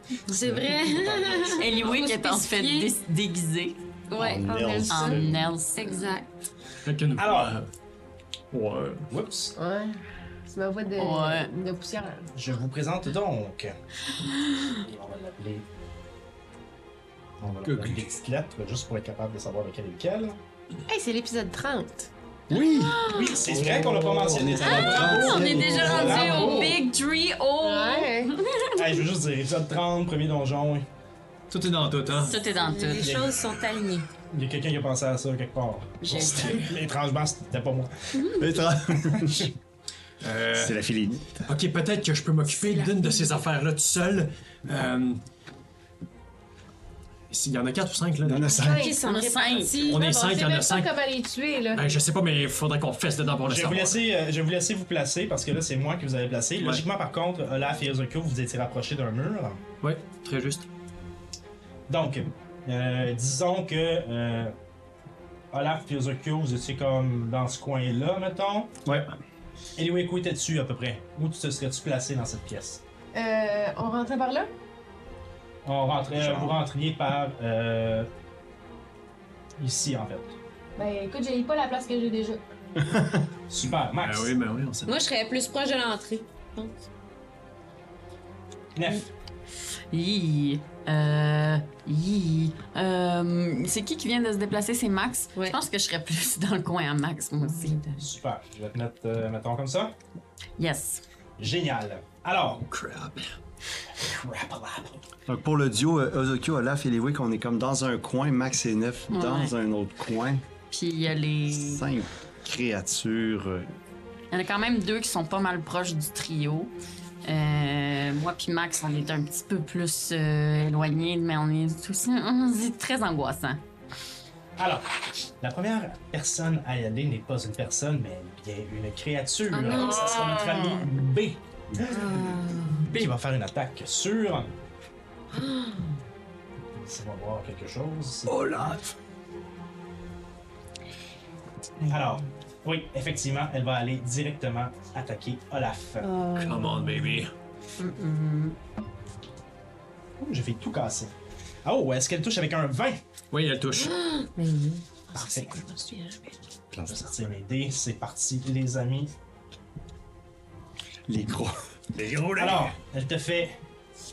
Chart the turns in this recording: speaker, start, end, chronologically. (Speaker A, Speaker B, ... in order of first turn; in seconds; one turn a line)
Speaker A: 0.3-2.9
Speaker B: 1.5-3.8
Speaker A: 4.1-4.5
Speaker C: 4.2-5.4
Speaker D: 4.4-5.3
Speaker B: 4.9-6.2
Speaker A: 5.7-6.3
Speaker E: 6.8-7.7
Speaker F: 7.2-7.6
Speaker E: 8.5-9.1
Speaker F: 9.1-9.5
Speaker D: 9.6-10.0
Speaker D: 10.5-12.3
Speaker B: 11.0-11.5
Speaker F: 12.3-13.7
Speaker F: 14.5-15.7
Speaker F: 17.4-20.4
Speaker E: 17.6-18.1
Speaker D: 20.9-22.1
Speaker C: 22.5-26.4
Speaker F: 23.0-26.8
Speaker B: 24.4-28.6
Speaker D: 27.6-28.4
Speaker F: 28.7-30.9
Speaker E: 31.5-32.4
Speaker B: 32.2-33.2
Speaker A: 32.6-34.1
Speaker F: 33.0-33.4
Speaker F: 34.3-38.2
Speaker B: 36.0-36.7
Speaker E: 36.3-36.7
Speaker C: 38.4-39.5
Speaker F: 39.1-39.4
Speaker E: 40.2-40.8
Speaker C: 40.5-41.4
Speaker E: 41.4-45.2
Speaker E: 47.3-48.6
Speaker C: 48.2-48.9
Speaker D: 48.4-49.1
Speaker A: 48.7-50.0
Speaker B: 48.9-50.0
Speaker D: 49.6-51.8
Speaker E: 49.8-51.0
Speaker E: 51.7-54.0
Speaker F: 53.5-59.6
Speaker E: 56.6-56.8
Speaker E: 59.8-60.7
Speaker F: 61.9-64.5
Speaker F: 65.5-69.0
Speaker F: 69.8-72.8
Speaker D: 73.1-74.5
Speaker F: 75.7-78.1
Speaker C: 76.2-76.6
Speaker F: 79.6-80.3
Speaker D: 80.8-82.4
Speaker C: 82.8-83.3
Speaker F: 83.5-84.4
Speaker E: 84.0-84.9
Speaker A: 84.9-86.8
Speaker F: 88.8-89.1
Speaker B: 89.9-97.8
Speaker A: 97.4-98.0
Speaker F: 98.0-99.9
Speaker B: 100.6-101.0
Speaker F: 101.4-102.6
Speaker E: 102.7-103.3
Speaker F: 104.0-105.0
Speaker C: 105.3-110.4
Speaker B: 109.1-109.5
Speaker B: 110.7-111.8
Speaker C: 111.5-113.7
Speaker B: 114.3-116.7
Speaker B: 117.2-123.6
Speaker F: 124.6-124.9
Speaker F: 125.4-134.5
Speaker A: 129.5-130.5
Speaker B: 129.7-130.8
Speaker C: 131.7-132.0
Speaker A: 131.9-132.9
Speaker A: 135.3-135.9
Speaker F: 136.7-138.8
Speaker F: 141.9-146.1
Speaker A: 146.0-146.7
Speaker E: 146.3-147.3
Speaker B: 147.8-148.6
Speaker F: 150.2-151.1
Speaker F: 151.7-153.0
Speaker E: 153.3-154.0
Speaker A: 153.8-154.9
Speaker F: 155.1-155.6
Speaker C: 156.7-157.1
Speaker F: 156.9-159.1
Speaker C: 161.1-162.7
Speaker F: 162.4-163.6